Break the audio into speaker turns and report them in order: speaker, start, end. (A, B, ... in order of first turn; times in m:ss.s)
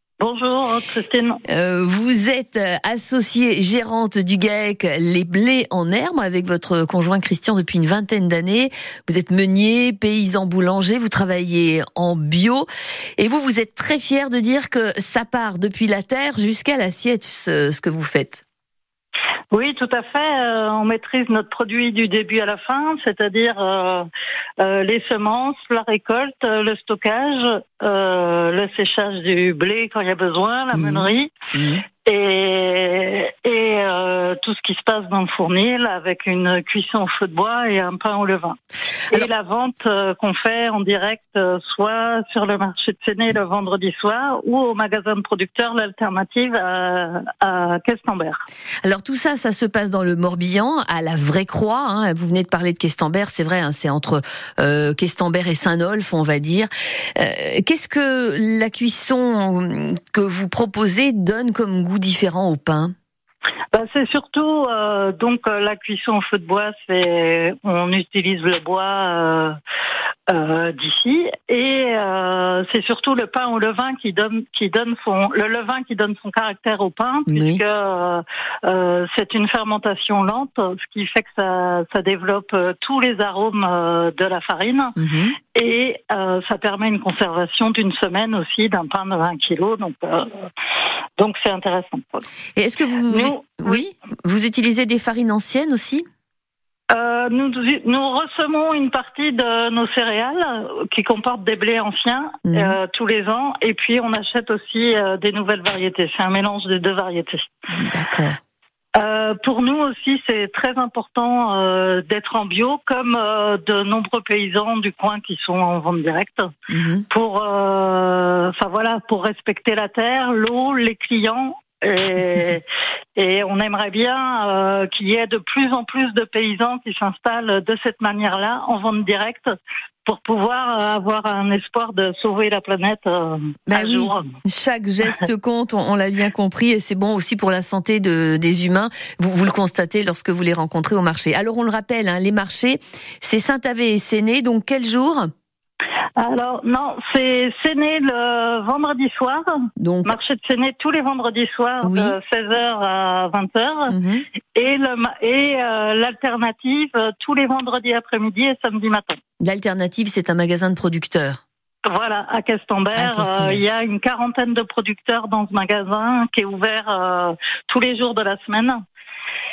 0:00.2-0:01.4 A
0:01.5-0:12.7 B
0:13.2-0:18.4 B
0:19.5-0:24.0 A
0:24.6-0:31.3 A
0:30.7-0:31.8 B
0:32.0-0:38.6 A
0:39.1-0:48.4 A
0:48.8-1:02.9 B
1:03.7-1:09.5 A
1:10.3-1:25.0 A
1:17.3-1:17.6 B
1:25.0-1:25.4 B
1:25.5-1:30.5 A
1:31.2-1:32.2 A
1:32.6-1:36.0 B
1:33.1-1:33.8 A
1:36.9-1:47.5 A
1:42.5-1:42.8 B
1:47.7-1:48.4 B
1:49.0-1:56.5 A
1:56.7-1:57.0 B
1:57.1-2:02.6 A
2:03.2-2:09.5 A
2:10.0-2:14.2 A
2:13.7-2:25.3 B
2:26.2-2:29.5 A
2:29.8-2:30.2 B
2:30.0-2:33.9 A
2:31.8-2:32.2 B
2:33.9-2:34.2 B
2:34.5-2:39.2 A
2:39.4-2:41.4 B
2:41.8-2:48.8 A
2:42.9-2:43.6 B